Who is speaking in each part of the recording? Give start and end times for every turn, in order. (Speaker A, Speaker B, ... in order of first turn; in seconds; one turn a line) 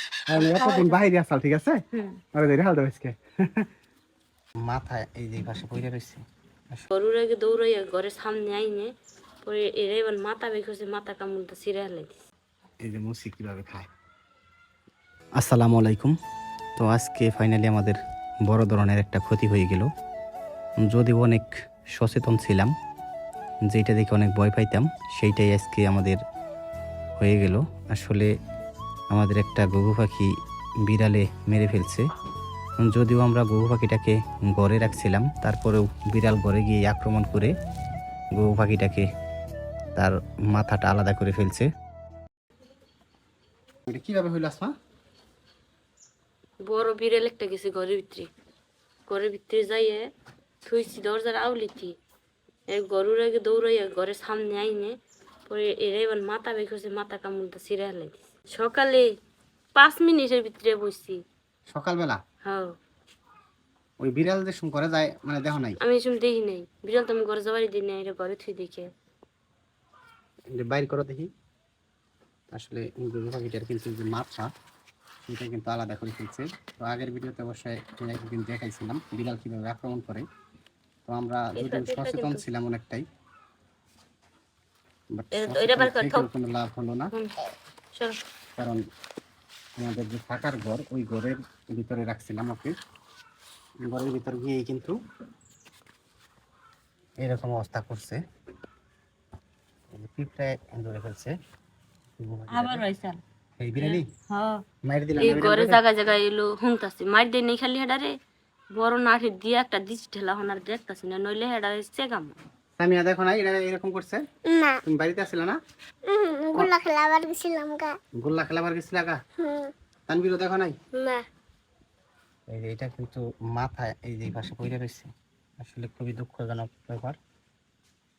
Speaker A: 0.3-1.8
Speaker B: 0.3-1.0
Speaker B: 1.9-2.2
Speaker A: 2.4-3.7
Speaker A: 4.6-6.2
Speaker B: 6.9-8.9
Speaker B: 9.4-12.2
Speaker A: 12.8-13.9
Speaker A: 15.4-16.1
Speaker A: 16.8-19.9
Speaker A: 20.8-22.7
Speaker A: 23.7-26.2
Speaker A: 27.2-28.3
Speaker A: 29.1-30.3
Speaker A: 30.8-32.0
Speaker A: 32.8-37.5
Speaker A: 38.3-39.0
Speaker A: 40.0-41.7
Speaker A: 43.9-44.7
Speaker B: 46.6-48.3
Speaker B: 49.1-50.1
Speaker B: 50.6-51.9
Speaker B: 52.7-55.0
Speaker B: 55.5-59.1
Speaker B: 59.8-61.2
Speaker A: 61.7-62.2
Speaker B: 62.4-62.7
Speaker A: 64.0-65.8
Speaker B: 65.8-68.9
Speaker A: 70.5-71.3
Speaker A: 72.5-74.5
Speaker A: 75.3-80.2
Speaker A: 81.1-83.0
Speaker B: 81.5-82.4
Speaker A: 85.2-87.1
Speaker B: 85.3-86.3
Speaker A: 89.8-92.7
Speaker A: 93.8-95.0
Speaker A: 97.2-98.2
Speaker A: 99.9-101.3
Speaker A: 102.2-102.8
Speaker B: 102.5-103.2
Speaker A: 103.6-104.1
Speaker B: 103.8-104.6
Speaker A: 104.8-105.8
Speaker B: 105.2-108.2
Speaker B: 108.7-112.4
Speaker A: 112.8-114.2
Speaker C: 114.5-114.8
Speaker A: 114.8-115.6
Speaker C: 116.1-118.0
Speaker A: 118.2-119.2
Speaker C: 119.4-119.7
Speaker A: 120.1-120.8
Speaker C: 120.9-121.2
Speaker A: 122.5-125.1
Speaker A: 125.6-127.2